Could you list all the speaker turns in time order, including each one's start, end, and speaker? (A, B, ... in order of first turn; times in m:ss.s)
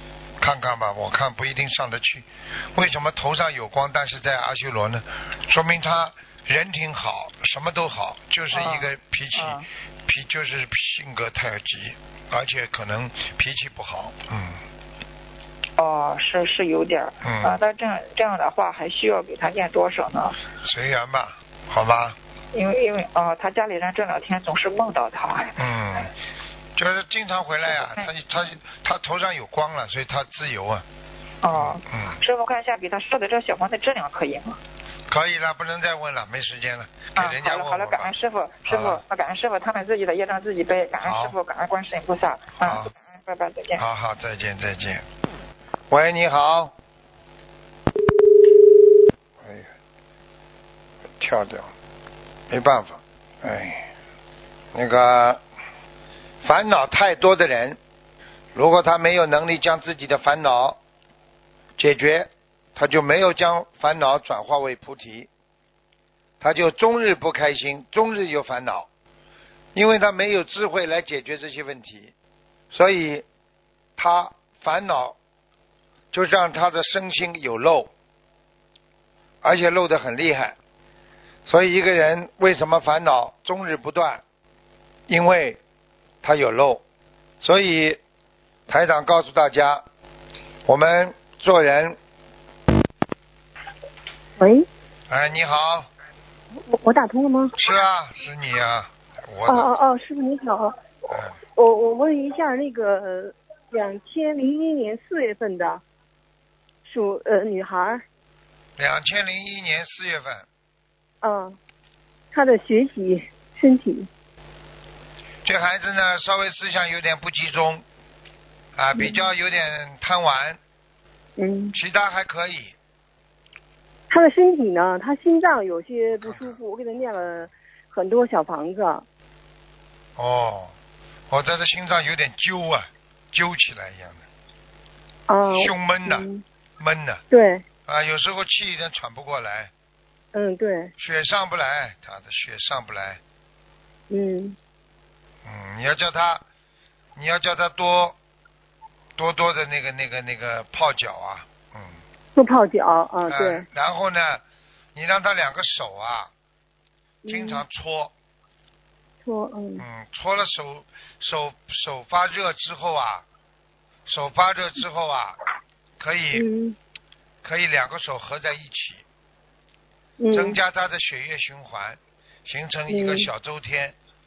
0:00.4-0:14.6 A
0:08.5-0:09.6 B
0:15.8-0:20.4 B
0:17.2-0:17.6 A
0:20.6-0:22.2 A
0:22.5-0:25.6 B
0:25.6-0:26.1 A
0:26.8-0:30.8 A
0:27.7-0:28.1 B
0:31.4-0:34.6 B
0:31.5-0:32.2 A
0:35.1-0:38.1 A
0:37.1-0:43.8 B
0:38.7-0:39.0 A
0:41.0-0:41.3 A
0:42.6-0:42.9 A
0:43.8-0:45.0 A
0:45.9-0:46.7 A
0:49.4-0:49.7 A
0:51.2-0:51.7 A
0:52.5-0:53.8 A
0:54.7-0:55.4 A
0:56.4-0:57.8 A
0:58.5-1:00.8 A
1:01.8-1:05.3 A
1:06.4-1:08.9 A
1:09.7-1:12.1 A
1:12.7-1:13.2 A
1:14.0-1:15.2 A
1:16.1-1:17.9 A
1:19.4-1:20.6 A
1:21.4-1:24.2 A
1:25.1-1:25.6 A
1:26.2-1:26.8 A
1:27.4-1:28.0 A
1:28.7-1:29.8 A
1:30.7-1:32.0 A
1:34.4-1:34.6 C
1:35.1-1:35.9 A
1:36.6-1:37.5 C
1:37.6-1:39.7 A
1:39.4-1:40.7 C
1:41.1-1:41.4 A
1:41.5-1:45.8 C
1:46.8-1:48.0 C
1:48.8-1:50.5 A
1:51.2-1:51.6 C
1:52.3-1:54.1 C
1:55.4-1:57.8 A
1:58.8-2:00.6 A
1:58.9-1:59.3 C
2:01.4-2:01.8 C
2:01.7-2:02.7 A
2:04.1-2:09.0 C
2:06.1-2:06.6 A
2:10.2-2:10.7 A
2:11.3-2:14.2 A
2:15.3-2:16.4 C
2:15.4-2:16.2 A
2:16.8-2:17.2 A
2:17.3-2:17.6 C
2:17.9-2:19.7 A
2:20.3-2:20.9 C
2:21.0-2:23.2 A
2:24.1-2:24.6 C
2:25.4-2:26.4 A
2:27.1-2:28.2 A
2:29.2-2:32.0 A
2:32.3-2:33.6 C
2:33.3-2:34.4 A
2:34.9-2:36.3 A
2:37.2-2:37.6 C
2:37.3-2:38.1 A
2:39.2-2:39.8 C
2:39.8-2:43.2 A
2:44.0-2:45.4 A
2:46.0-2:46.5 A
2:46.3-2:46.8 C
2:47.4-2:49.0 A
2:50.2-2:50.6 C
2:50.3-2:54.0 A
2:52.9-2:53.3 C